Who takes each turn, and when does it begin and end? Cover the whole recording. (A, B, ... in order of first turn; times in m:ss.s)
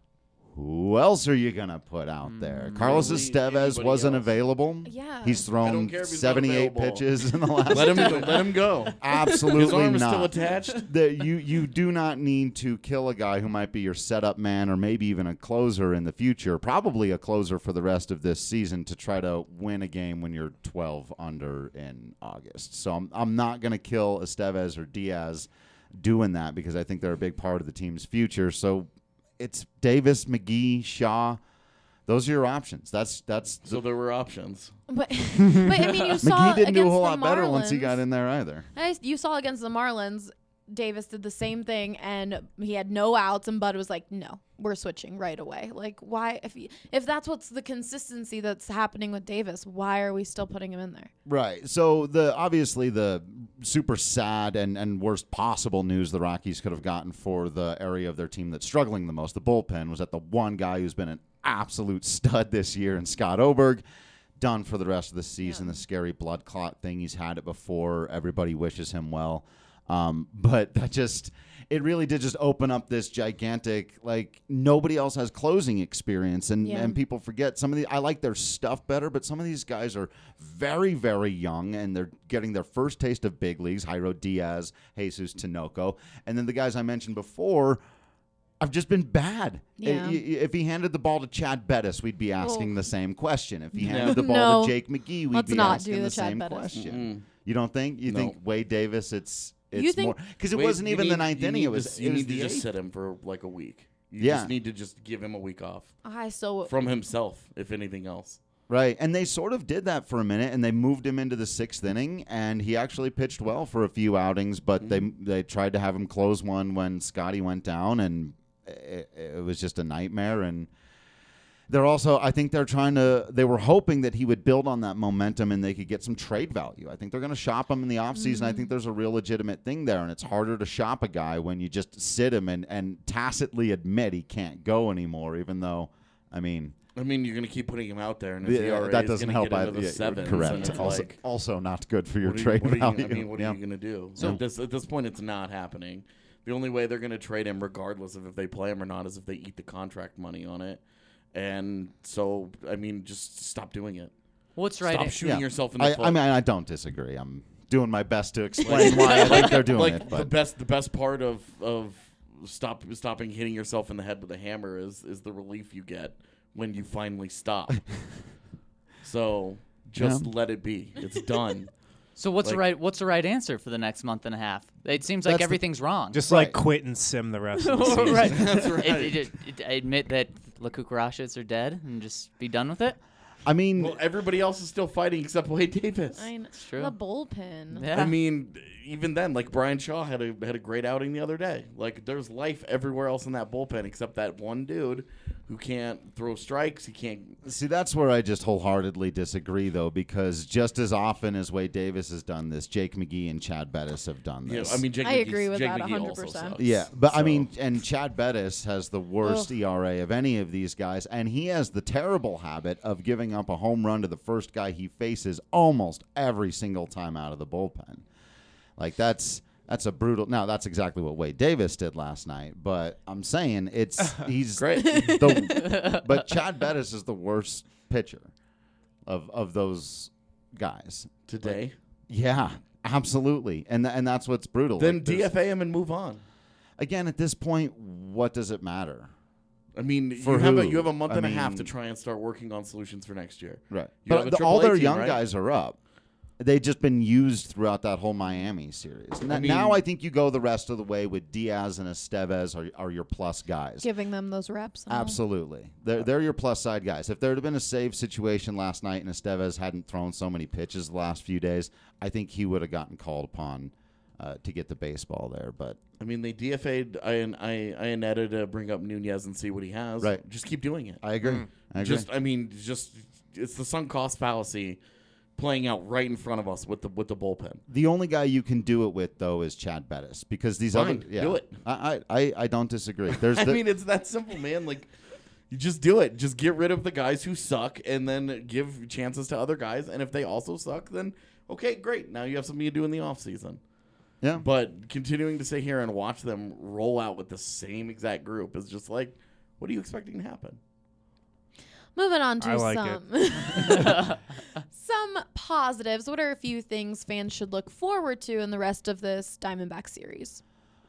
0:00.5-0:31.4 A
0:02.3-0:03.0 B
0:02.7-0:04.3 C
0:04.8-0:05.5 D
0:05.6-0:07.1 C
0:07.7-0:10.9 C
0:07.7-0:08.4 D
0:32.1-0:33.8 A
0:33.7-0:34.8 C
0:34.9-0:38.0 D
0:35.3-0:38.7 A
0:38.8-0:51.1 D
0:51.3-1:03.8 A
1:04.4-1:27.8 A
1:05.4-1:05.8 D
1:16.6-1:17.0 D
1:28.6-1:42.7 A
1:29.8-1:30.2 D
1:32.4-1:32.7 D
1:33.8-1:34.8 D
1:33.8-1:34.2 C
1:35.3-1:36.7 D
1:36.7-1:37.3 C
1:38.1-1:38.4 C
1:39.7-1:40.2 D
1:40.5-1:46.0 C
1:44.2-1:44.5 A
1:46.0-1:46.7 D
1:46.7-1:48.4 C
1:48.7-2:00.7 A
2:01.7-2:16.8 A
2:08.2-2:08.7 D
2:17.0-2:21.2 C
2:18.4-2:23.6 A
2:22.2-2:34.1 C
2:24.2-2:24.4 A
2:34.6-2:35.2 B
2:34.8-2:36.2 C
2:35.2-2:40.3 A
2:38.6-2:47.8 C
2:49.0-2:51.7 C
2:50.0-2:50.3 A
2:52.2-2:56.2 B
2:55.2-2:55.6 A
2:56.1-2:58.6 E
2:56.3-2:56.6 A
2:57.6-3:03.0 B
2:58.3-2:59.2 C
3:03.5-3:04.0 A
3:03.8-3:06.3 C
3:06.2-3:07.9 D
3:06.6-3:06.9 B
3:07.7-3:08.2 B
3:07.9-3:17.4 C
3:17.4-3:24.8 A
3:24.4-3:27.5 C
3:25.0-3:26.6 D
3:26.6-3:38.0 A
3:29.2-3:29.5 D
3:38.8-3:48.3 A
3:44.6-3:45.5 C
3:49.1-3:55.3 A
3:51.3-3:51.8 C
3:54.8-3:56.2 C
3:56.8-3:59.1 A
3:59.8-4:05.2 C
4:00.2-4:01.7 A
4:03.7-4:05.8 A
4:06.4-4:13.9 A
4:09.3-4:09.8 C
4:13.8-4:15.2 D
4:14.9-4:25.8 A
4:26.0-4:31.0 C
4:31.0-4:32.1 A
4:31.8-4:34.8 C
4:35.4-4:37.6 C
4:37.7-4:43.6 A
4:40.7-4:41.6 C
4:43.2-4:44.9 C
4:45.5-4:53.6 C
4:54.4-5:00.6 C
5:02.0-5:04.2 D
5:02.4-5:03.8 E
5:04.7-5:10.4 D